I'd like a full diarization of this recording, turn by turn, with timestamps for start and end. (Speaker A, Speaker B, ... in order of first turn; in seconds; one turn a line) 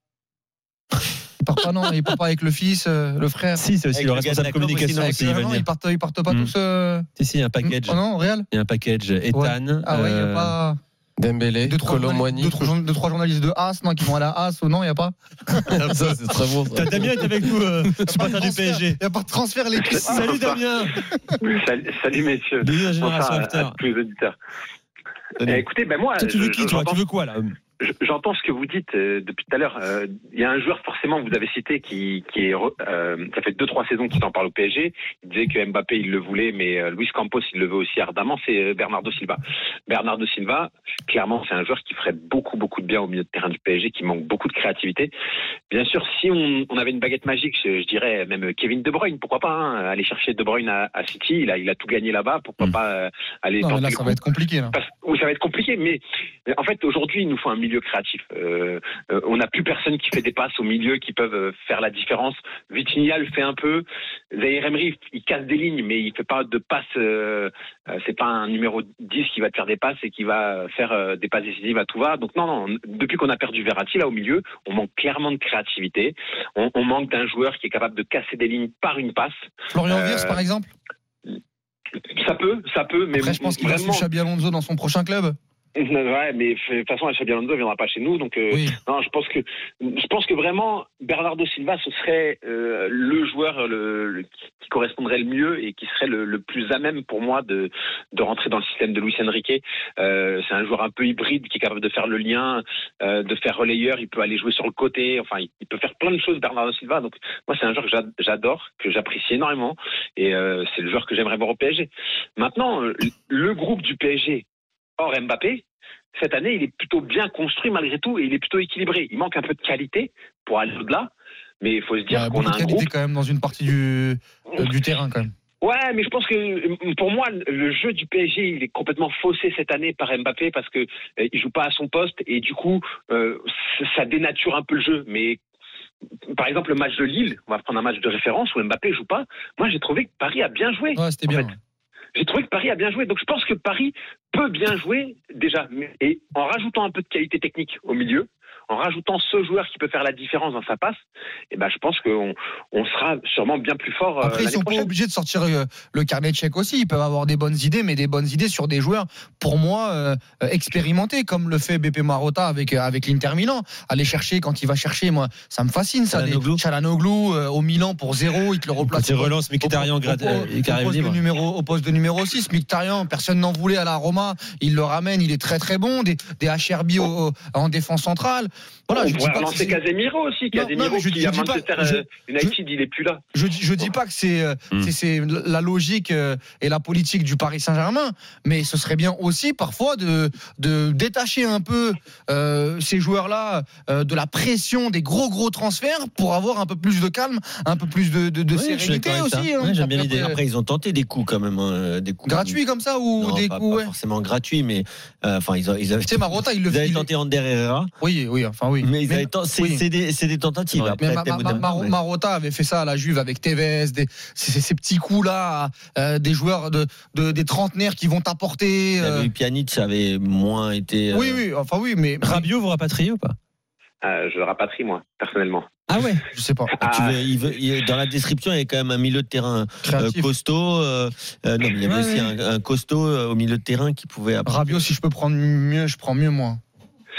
Speaker A: 1.4-3.6
Speaker B: 3.6-5.7
Speaker C: 3.9-5.2
Speaker A: 5.0-7.1
Speaker B: 7.2-10.6
Speaker A: 7.6-8.5
Speaker A: 9.3-10.8
Speaker D: 11.2-12.7
Speaker A: 11.6-15.9
Speaker D: 15.7-17.4
Speaker B: 15.8-16.1
Speaker B: 16.7-19.0
Speaker A: 18.0-21.4
Speaker E: 19.9-20.5
Speaker B: 20.1-21.0
Speaker E: 21.4-24.4
Speaker B: 22.6-23.8
Speaker E: 25.5-27.0
Speaker B: 26.2-27.6
Speaker E: 27.9-45.1
Speaker E: 45.7-54.2
Speaker A: 53.6-54.8
Speaker E: 54.7-56.0
Speaker E: 56.6-63.8
Speaker E: 64.4-79.3
Speaker A: 79.7-80.7
Speaker E: 79.9-80.4
Speaker E: 82.1-84.0
Speaker A: 83.2-85.4
Speaker E: 85.8-114.4
Speaker A: 88.5-88.8
Speaker E: 115.0-115.6
Speaker E: 116.2-121.1
Speaker E: 121.6-122.9
Speaker A: 122.1-125.3
Speaker E: 125.6-135.4
Speaker E: 136.3-141.5
Speaker A: 141.0-141.6
Speaker E: 142.2-150.9
Speaker E: 151.5-154.8
Speaker A: 154.2-179.8
Speaker C: 166.1-166.6
Speaker B: 168.8-171.2
Speaker E: 178.9-183.2
Speaker A: 180.5-182.6
Speaker A: 183.3-200.4
Speaker B: 198.5-200.3
Speaker C: 200.1-202.6
Speaker A: 202.2-203.9
Speaker C: 203.2-207.9
Speaker A: 206.0-207.1
Speaker A: 208.0-209.8
Speaker C: 208.8-212.0
Speaker A: 211.0-219.3
Speaker C: 219.0-221.4
Speaker A: 221.1-222.5
Speaker B: 222.2-223.4
Speaker E: 224.0-225.6
Speaker B: 225.9-226.2
Speaker A: 226.3-226.8
Speaker C: 226.8-234.9
Speaker A: 229.8-230.3
Speaker A: 231.9-232.3
Speaker A: 234.4-236.6